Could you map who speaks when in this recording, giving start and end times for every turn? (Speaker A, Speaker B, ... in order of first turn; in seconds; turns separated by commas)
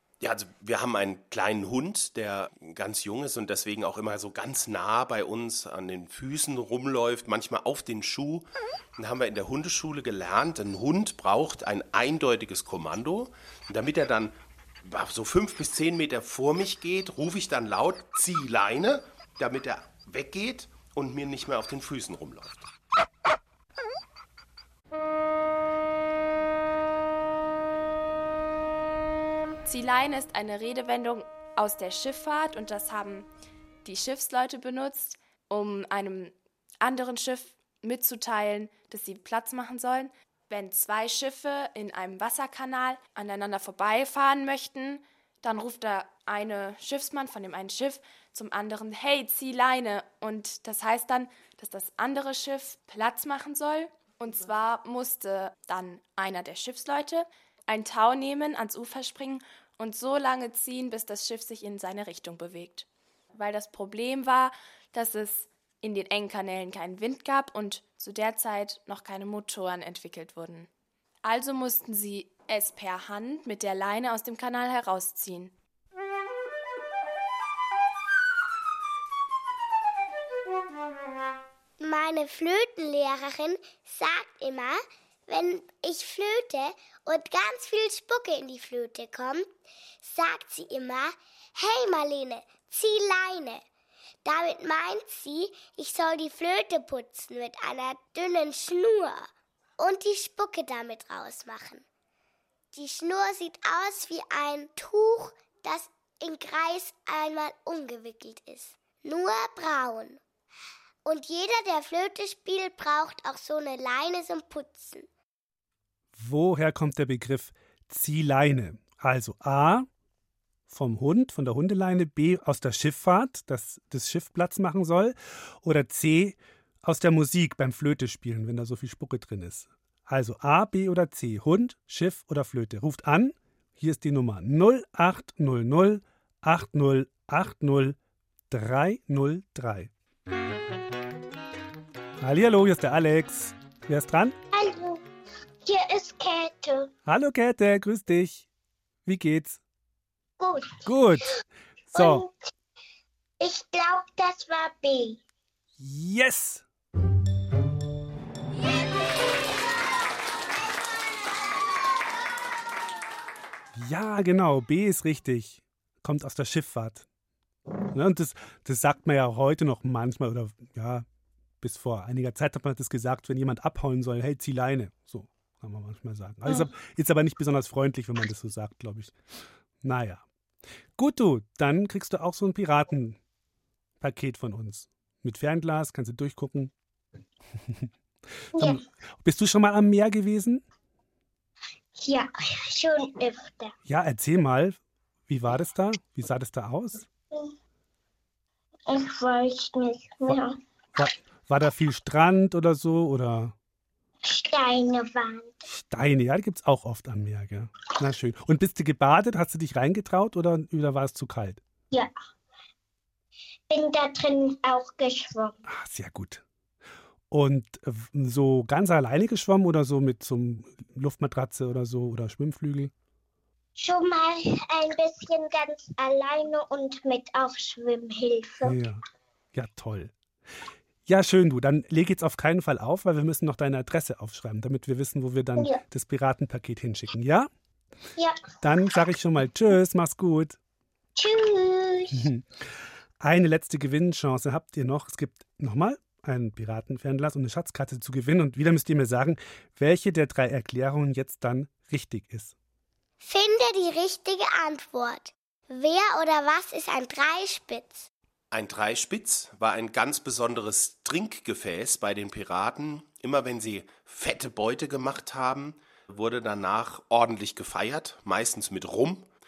Speaker A: 0.2-22.7, Speaker B: 29.6-33.3, Speaker B: 33.9-70.7, Speaker B: 71.2-75.5, Speaker C: 81.8-89.5, Speaker C: 90.0-93.6, Speaker C: 94.2-99.3, Speaker C: 99.8-101.8, Speaker C: 102.7-110.2, Speaker C: 111.0-115.1, Speaker D: 116.2-119.9, Speaker D: 120.7-138.0, Speaker D: 138.5-139.9, Speaker D: 142.2-144.3, Speaker E: 144.5-145.0, Speaker E: 145.6-146.9, Speaker D: 147.1-148.5, Speaker D: 149.1-149.6, Speaker E: 150.4-150.8, Speaker D: 150.8-151.3, Speaker D: 151.9-152.2, Speaker E: 151.9-152.3, Speaker E: 153.4-155.2, Speaker D: 155.8-156.6, Speaker D: 163.8-167.1, Speaker D: 167.9-171.1, Speaker D: 171.6-179.1, Speaker D: 179.8-180.2, Speaker D: 181.0-183.2, Speaker D: 184.0-186.7, Speaker D: 188.5-190.6, Speaker E: 192.0-193.7, Speaker D: 193.9-197.1, Speaker E: 198.9-200.5, Speaker D: 200.9-203.5, Speaker E: 204.2-205.6, Speaker D: 205.7-211.6, Speaker E: 213.7-215.6, Speaker D: 215.7-216.4, Speaker D: 217.3-222.9, Speaker E: 223.8-228.8, Speaker D: 228.6-229.0, Speaker D: 229.5-230.1, Speaker D: 231.1-237.5, Speaker E: 238.2-238.5, Speaker D: 238.6-240.6, Speaker E: 241.2-242.2, Speaker D: 242.1-242.4, Speaker D: 243.2-252.6, Speaker C: 253.2-258.1, Speaker A: 258.5-269.3